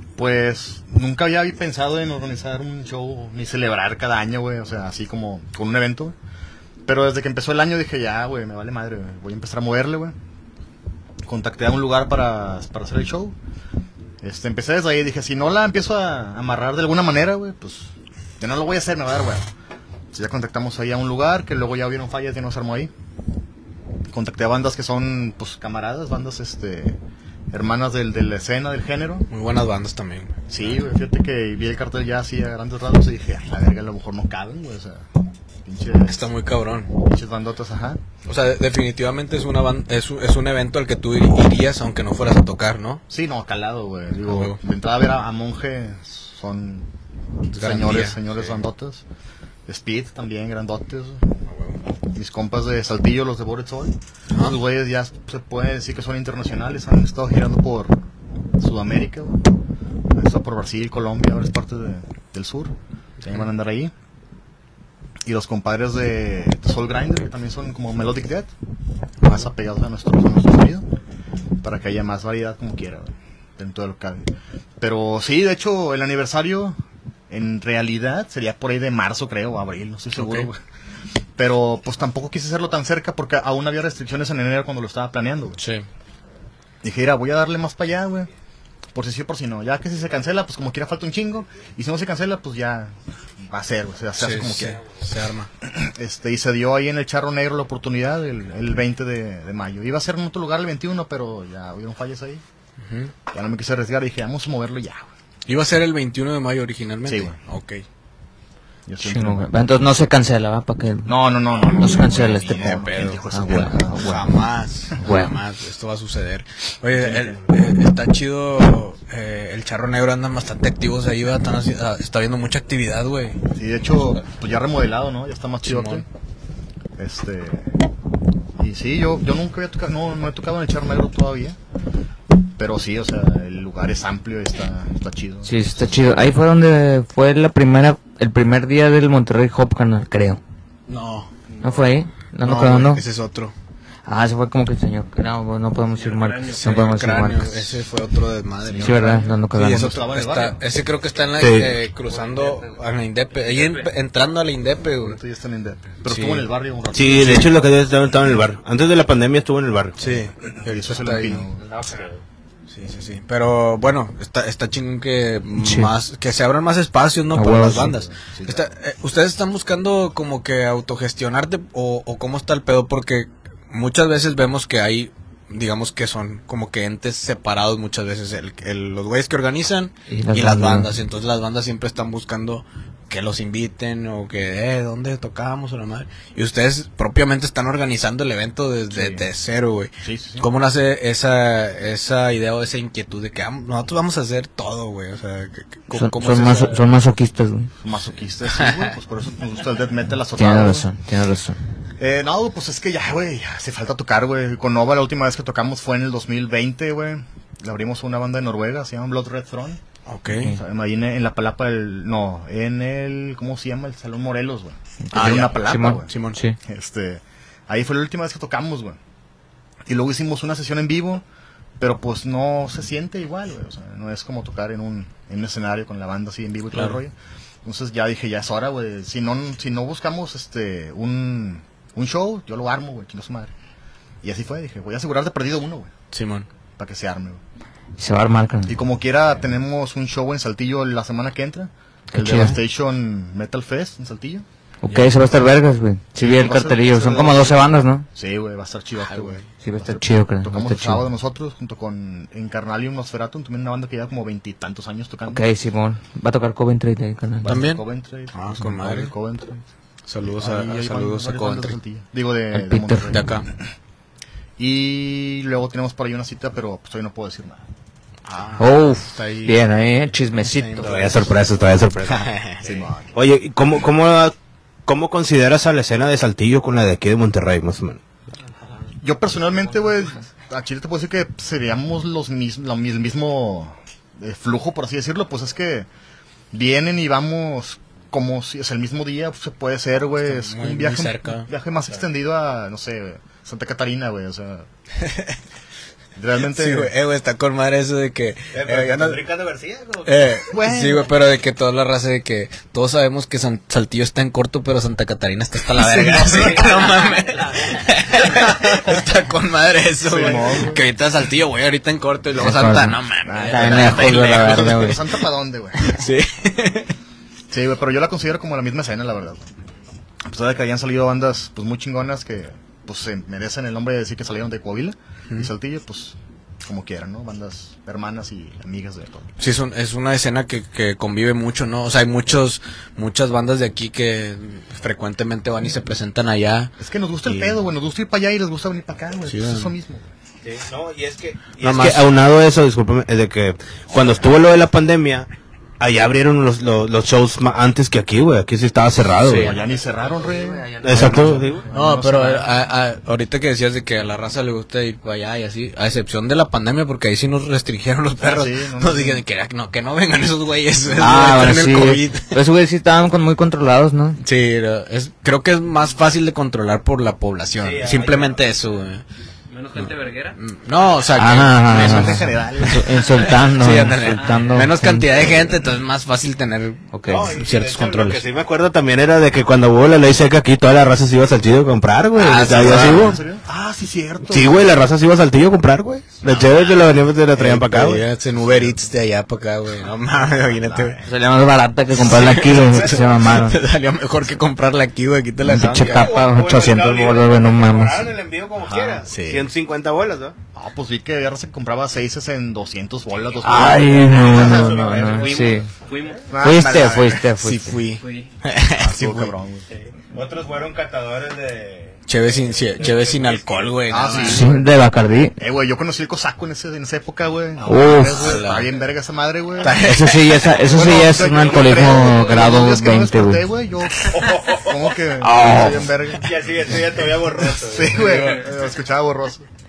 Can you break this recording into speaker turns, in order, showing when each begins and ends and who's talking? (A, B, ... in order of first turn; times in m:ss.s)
0:00.2-0:06.2 A
0:06.8-0:10.2 A
0:11.2-0:13.4 A
0:14.2-0:19.5 A
0:20.1-0:22.9 A
0:24.1-0:27.0 A
0:27.5-0:29.3 A
0:29.3-0:30.4 B
0:30.5-0:35.1 A
0:35.6-0:36.3 A
0:36.1-0:36.9 B
0:36.9-0:38.0 A
0:38.3-0:43.0 B
0:43.1-0:46.9 A
0:44.3-0:44.6 B
0:47.5-0:48.6 B
0:47.6-0:49.0 A
0:49.7-0:51.2 A
0:51.5-0:51.8 B
0:52.1-0:58.0 A
0:58.6-0:59.5 A
1:00.1-1:03.9 A
1:05.2-1:08.5 A
1:09.2-1:10.9 A
1:11.6-1:16.8 A
1:17.3-1:20.6 A
1:20.2-1:20.5 B
1:21.4-1:25.6 A
1:25.6-1:25.8 B
1:26.8-1:28.3 A
1:29.0-1:34.8 A
1:34.2-1:35.5 B
1:35.6-1:42.4 A
1:42.8-1:43.1 B
1:43.3-1:45.1 A
1:45.5-1:47.8 B
1:47.1-1:47.4 A
1:48.9-1:50.0 A
1:49.0-1:54.3 C
1:51.1-1:54.3 A
1:52.5-2:03.4 B
1:55.0-1:55.4 C
1:57.0-1:57.5 A
2:03.5-2:06.0 A
2:05.6-2:06.0 B
2:07.0-2:07.8 A
2:08.6-2:11.6 A
2:12.6-2:15.9 A
2:15.4-2:20.4 C
2:20.9-2:21.3 B
2:21.6-2:23.0 C
2:22.4-2:23.5 B
2:24.1-2:27.7 C
2:26.0-2:26.9 D
2:26.6-2:35.2 B
2:28.6-2:30.6 A
2:28.8-2:29.9 C
2:31.4-2:31.8 E
2:33.5-2:33.9 D
2:35.0-2:37.7 A
2:36.0-2:36.5 B
2:36.9-2:40.0 E
2:37.2-2:37.5 B
2:40.0-2:41.5 B
2:40.6-2:41.7 A
2:41.7-2:42.2 D
2:42.7-3:16.8 B
2:45.6-2:45.9 C
2:47.3-2:48.0 C
2:47.9-2:48.7 A
3:00.1-3:00.9 C
3:08.9-3:09.2 A
3:10.0-3:10.5 A
3:15.9-3:17.7 C
3:17.8-3:20.9 A
3:18.5-3:18.9 B
3:20.4-3:21.6 C
3:22.0-3:36.1 A
3:30.1-3:30.5 B
3:35.1-3:36.4 B
3:35.2-3:36.6 C
3:36.6-3:39.0 A
3:39.9-3:41.2 A
3:41.8-3:53.5 A
3:46.7-3:47.0 B
3:54.2-3:55.9 A
3:56.1-3:56.5 B
3:56.8-3:57.4 A
3:58.0-3:58.8 C
3:58.7-4:04.5 A
4:02.1-4:02.6 C
4:04.8-4:08.1 C
4:04.8-4:05.2 B
4:06.2-4:15.5 A
4:09.0-4:09.5 B
4:09.6-4:11.0 C
4:15.3-4:17.6 C
4:17.4-4:19.7 A
4:17.4-4:19.1 B
4:20.0-4:21.8 B
4:20.3-4:23.6 A
4:22.5-4:23.3 C
4:23.1-4:23.5 B
4:24.6-4:27.7 A
4:28.2-4:29.6 B
4:28.6-4:31.3 C
4:30.4-4:31.4 B
4:30.8-4:32.3 E
4:32.0-4:32.8 B
4:32.6-4:33.1 A
4:33.1-4:34.4 E
4:34.9-4:38.0 E
4:39.0-4:45.9 A
4:46.5-4:54.7 A
4:50.2-4:51.5 B
4:55.0-4:55.4 B
4:56.2-4:56.9 A
4:56.4-4:59.3 B
4:58.5-5:00.1 E
5:00.0-5:15.0 B
5:00.5-5:01.1 A
5:05.8-5:06.6 A
5:06.4-5:07.6 D
5:10.0-5:10.8 A
5:12.4-5:15.0 C
5:13.2-5:16.0 A
5:15.8-5:16.9 B
5:17.5-5:19.5 A
5:20.2-5:29.3 A
5:29.4-5:36.7 B
5:36.8-5:40.1 A
5:37.3-5:37.6 B
5:39.3-5:39.7 B
5:40.4-5:45.3 E
5:41.6-5:42.1 B
5:45.8-5:49.6 E
5:49.2-5:49.6 B
5:49.3-5:52.4 A
5:49.6-5:52.3 C
5:50.8-5:51.6 E
5:51.7-6:02.4 B
5:58.2-5:59.2 A
6:01.0-6:04.2 C
6:04.2-6:09.0 B
6:07.6-6:08.6 E
6:09.5-6:10.4 D
6:09.8-6:12.7 B
6:11.2-6:15.4 C
6:11.6-6:13.0 A
6:13.0-6:13.3 D
6:13.2-6:18.3 B
6:14.1-6:14.6 D
6:16.9-6:17.4 C
6:17.1-6:23.2 E
6:22.2-6:23.2 B
6:22.4-6:24.7 A
6:24.2-6:28.0 E
6:26.2-6:26.5 A
6:27.4-6:31.0 B
6:28.4-6:28.9 A
6:30.5-6:31.0 A
6:31.0-6:33.6 C
6:32.0-6:36.2 B
6:32.5-6:33.0 E
6:35.4-6:38.2 C
6:35.5-6:35.8 A
6:35.9-6:40.4 E
6:38.6-6:39.5 A
6:40.5-6:44.7 A
6:43.4-6:45.7 C
6:43.4-6:45.6 E
6:44.8-6:46.3 D
6:46.3-6:47.2 A
6:46.4-6:47.8 C
6:47.4-6:49.3 B
6:48.0-6:48.3 D
6:48.8-6:49.7 A
6:49.7-6:52.0 E
6:52.1-6:54.5 B
6:52.7-6:54.4 E
6:53.9-6:54.6 A
6:54.2-6:55.4 C
6:55.4-7:00.0 A
6:57.7-6:58.4 C
6:58.0-6:58.7 B
6:59.6-7:00.5 B
6:59.8-7:03.4 C
7:00.6-7:06.9 A
7:04.1-7:04.8 E
7:05.2-7:05.9 C
7:06.1-7:08.1 E
7:07.6-7:09.5 A
7:08.0-7:08.4 B